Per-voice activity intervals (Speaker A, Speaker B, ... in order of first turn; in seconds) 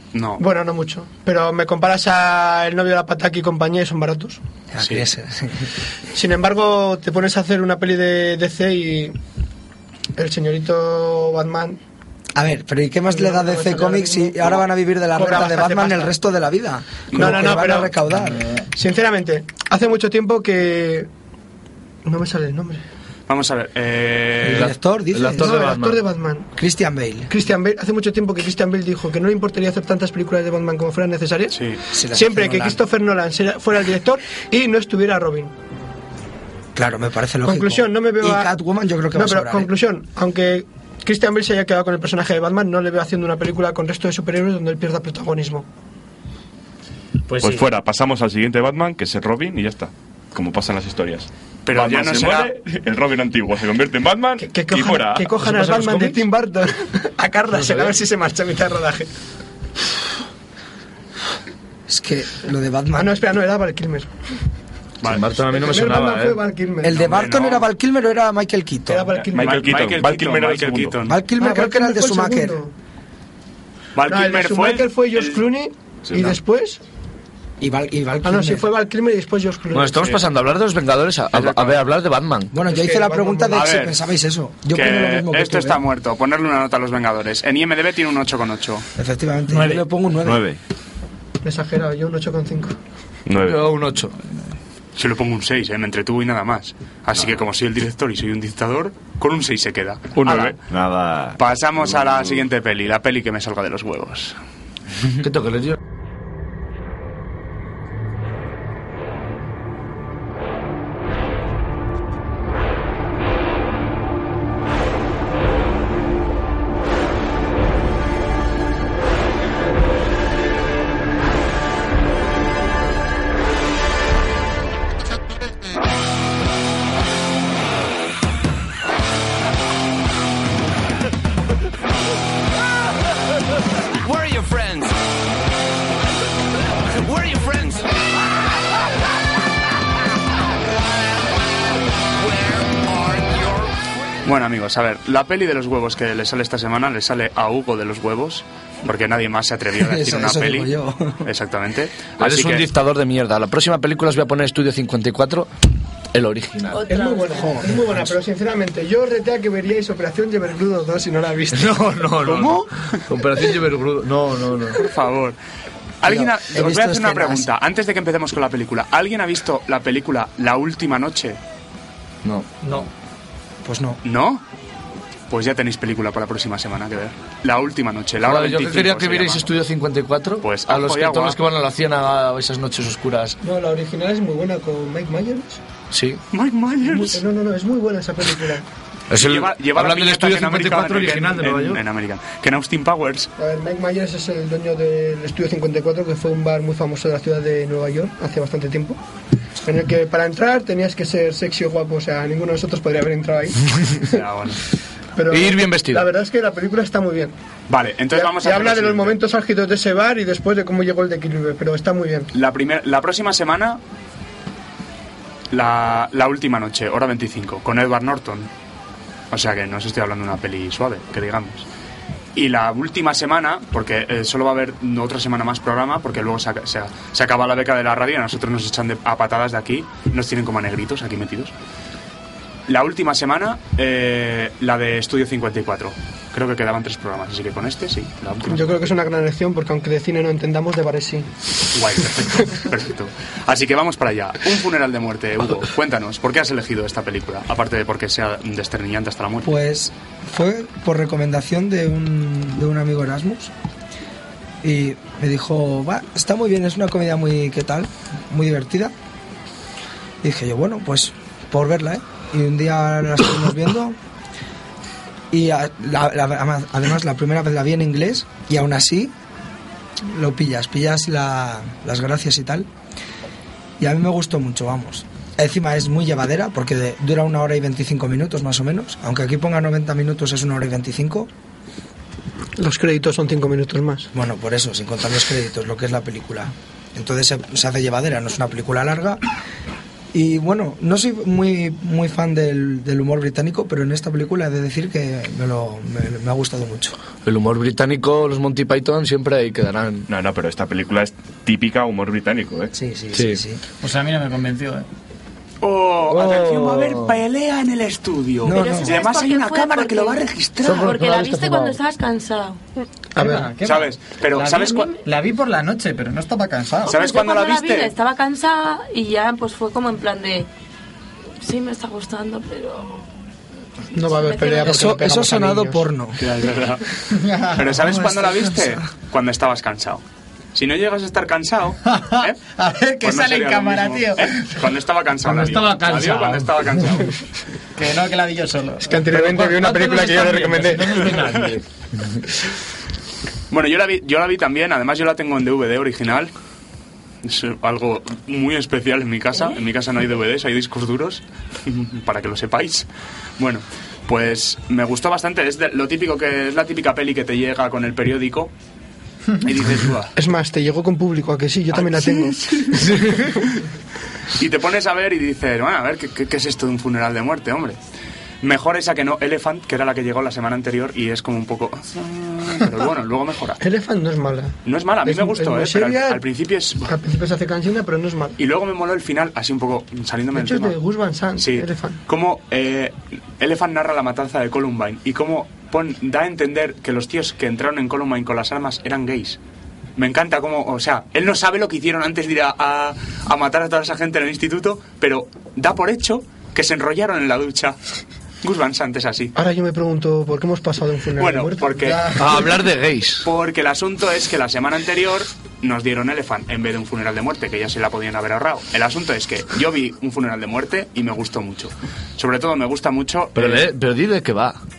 Speaker A: 0.1-0.4, 4.8-5.0, 23.3-24.7, 31.5-31.8, 51.6-52.5, 67.0-67.6, 69.3-71.2, 73.9-75.4, 81.3-81.8, 83.5-84.0, 84.7-88.8, 95.0-100.6, 101.3-104.4, 144.2-150.7, 151.2-152.7, 164.7-165.4, 166.0-171.4, 174.0-174.4, 175.3-179.5, 180.4-181.4, 186.3-187.2, 189.1-193.3, 204.1-204.6, 207.7-209.2, 212.3-213.8, 215.5-218.5, 219.3-221.7, 222.3-231.5, 232.7-238.9, 241.7-249.5, 305.6-310.9, 313.6-314.9, 316.9-317.9, 326.2-326.9, 327.5-330.0, 330.5-332.4, 333.0-337.2, 341.1-341.5, 343.5-346.3, 347.2-352.9, 353.4-358.5, 359.4-360.1, 361.7-363.6, 364.4-367.8, 368.4-373.6, 374.6-376.9, 378.4-380.8, 381.4-389.4, 390.0-397.8, 398.4-399.3, 401.2-402.1, 403.2-413.7
Speaker B: 0.4-4.4, 6.1-9.1, 10.2-11.8, 13.1-16.1, 17.1-17.9, 18.7-21.1, 22.0-22.8, 25.3-26.5, 27.3-31.6, 32.1-35.5, 37.4-38.5, 39.1-45.6, 54.4-59.1, 63.0-64.1, 65.3-67.2, 68.9-69.8, 71.4-72.7, 74.1-76.8, 78.2-80.2, 82.6-83.7, 91.4-92.7, 156.9-162.6, 183.4-185.6, 186.8-188.7, 193.4-199.0, 199.6-204.2, 205.1-207.3, 208.1-212.3, 238.5-241.3, 282.6-284.1, 313.1-313.5, 323.9-325.9, 338.9-341.1, 360.1-363.0, 373.6-376.2, 376.9-378.4, 380.3-382.0, 399.4-402.6
Speaker C: 4.7-5.7, 12.3-18.5, 24.4-25.7, 26.6-27.3, 31.9-32.8, 36.7-39.7, 61.9-63.2, 66.8-69.2, 71.0-72.6, 77.6-78.7, 82.5-85.8, 89.0-90.4, 149.8-151.3, 157.3-158.1, 166.0-167.5, 173.6-174.0, 249.4-253.5, 254.6-258.9, 260.2-264.0, 265.3-269.1, 270.0-272.7, 273.8-281.3, 284.1-289.2, 290.1-296.9, 302.7-303.6, 308.4-308.9, 324.6-326.2, 328.1-328.7
Speaker D: 24.5-26.0, 55.4-56.2, 57.5-57.9, 65.0-66.4, 79.7-82.5, 93.4-94.1, 105.2-105.8, 152.2-155.5, 156.1-156.8, 161.5-164.8, 172.2-172.5, 178.2-183.4, 185.9-186.2, 189.1-191.8, 205.3-206.1, 297.2-300.1, 303.1-303.4, 306.1-307.2, 310.6-311.8, 362.8-363.3, 402.1-403.3, 413.3-414.6
Speaker E: 47.3-47.7, 89.5-89.8, 303.8-304.9, 313.2-316.9, 327.1-327.7, 331.9-334.5, 335.3-336.4, 337.8-341.6
Speaker F: 47.4-55.4, 69.3-71.0, 93.2-93.7, 100.2-100.5, 300.1-302.7
Speaker G: 90.2-90.6, 100.7-102.4
Speaker H: 134.0-135.1, 136.8-138.4, 140.6-144.3
Speaker I: 156.7-157.6, 308.5-312.6, 316.9-320.5, 321.4-323.1, 324.1-324.8